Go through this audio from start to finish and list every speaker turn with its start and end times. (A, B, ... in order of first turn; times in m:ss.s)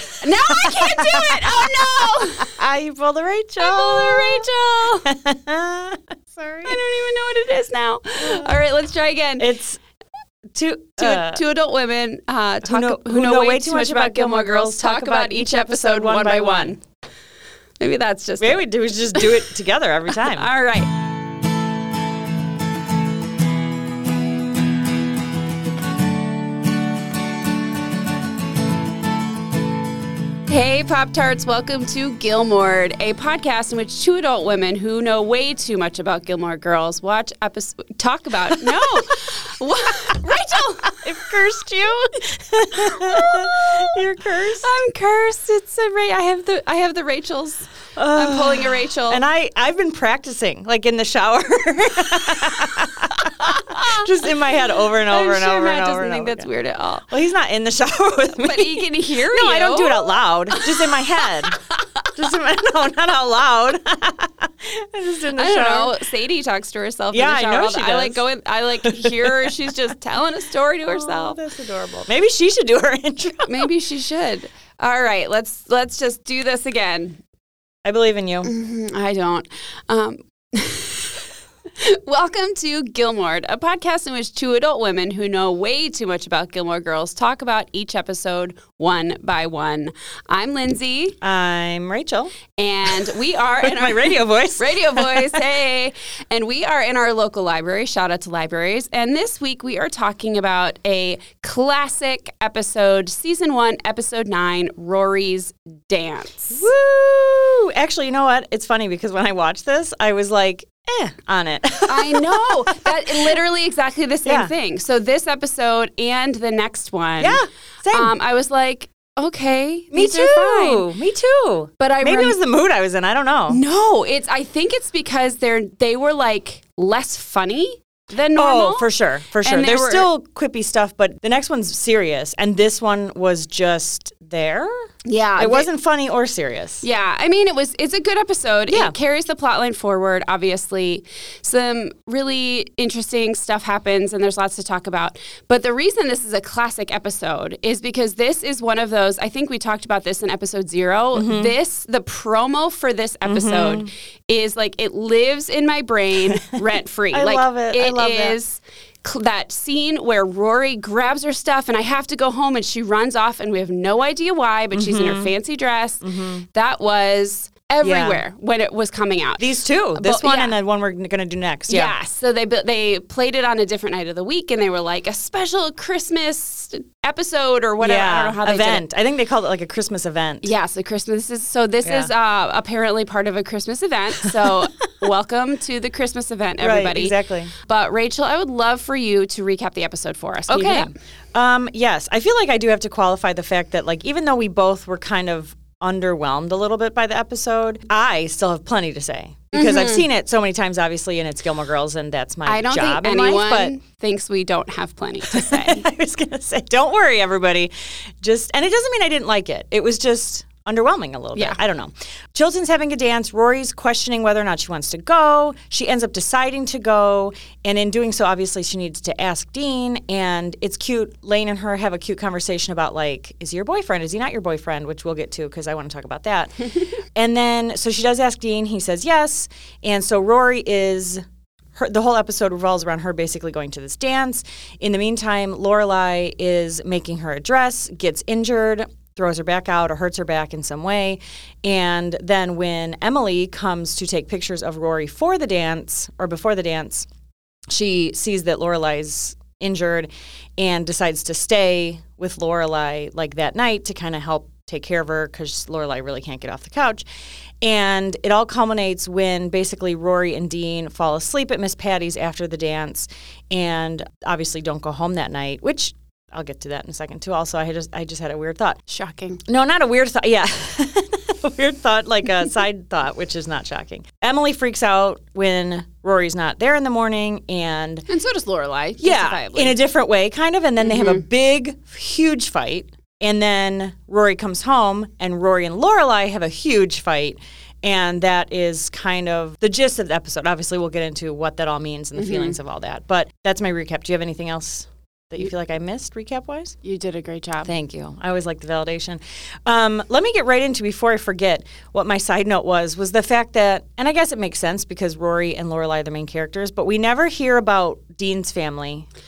0:00.2-0:02.5 A
0:00.4-0:04.5 B
0:03.6-0:05.1 A
0:05.0-0:06.8 B
0:06.6-0:09.5 A
0:08.2-0:08.5 B
0:09.4-0:09.8 B
0:10.5-0:11.4 B
0:11.0-0:16.8 A
0:12.6-0:16.8 B
0:17.8-0:19.4 A
0:18.4-0:20.5 B
0:20.2-0:20.9 A
0:30.5-0:41.0 A
0:40.9-0:44.7 B
0:42.8-0:44.0 A
0:44.6-0:49.2 A
0:48.0-0:56.5 B
0:55.1-0:57.1 A
0:57.1-1:01.6 B
0:58.4-1:00.9 A
1:02.1-1:06.0 B
1:05.4-1:11.4 A
1:07.1-1:08.2 B
1:08.8-1:09.5 B
1:10.8-1:13.7 B
1:13.5-1:17.2 A
1:17.8-1:18.5 B
1:18.4-1:21.2 A
1:21.8-1:31.2 A
1:31.2-1:35.4 B
1:32.6-1:46.7 A
1:46.5-1:53.4 B
1:51.9-1:57.4 A
1:54.2-1:54.5 B
1:57.2-1:58.1 B
1:57.9-2:00.9 A
1:59.9-2:03.6 B
2:01.8-2:02.4 A
2:03.5-2:08.9 A
2:08.4-2:14.7 B
2:09.4-2:10.1 A
2:15.0-2:15.7 A
2:15.4-2:16.8 B
2:16.8-2:50.6 A
2:18.7-2:19.0 B
2:31.1-2:31.5 B
2:33.3-2:33.9 B
2:36.3-2:36.6 B
2:37.1-2:38.4 B
2:44.7-2:45.3 B
2:46.0-2:46.4 B
2:47.8-2:48.2 B
2:49.4-2:51.9 B
2:51.7-2:58.9 A
2:57.8-3:00.5 B
3:00.4-3:10.9 A
3:01.8-3:02.1 B
3:06.6-3:07.5 B
3:10.5-3:23.7 B
3:19.5-3:20.0 A
3:22.5-3:25.9 A
3:25.3-3:46.6 B
3:47.2-3:51.2 B
3:51.8-4:07.1 B
4:07.7-4:17.0 B
4:17.6-4:28.8 B
4:28.9-4:29.4 A
4:29.5-4:38.0 B
4:38.1-4:39.8 A
4:39.0-4:56.8 B
4:40.8-4:41.2 A
4:52.2-4:52.6 A
4:56.8-4:57.7 A
4:57.6-5:09.1 B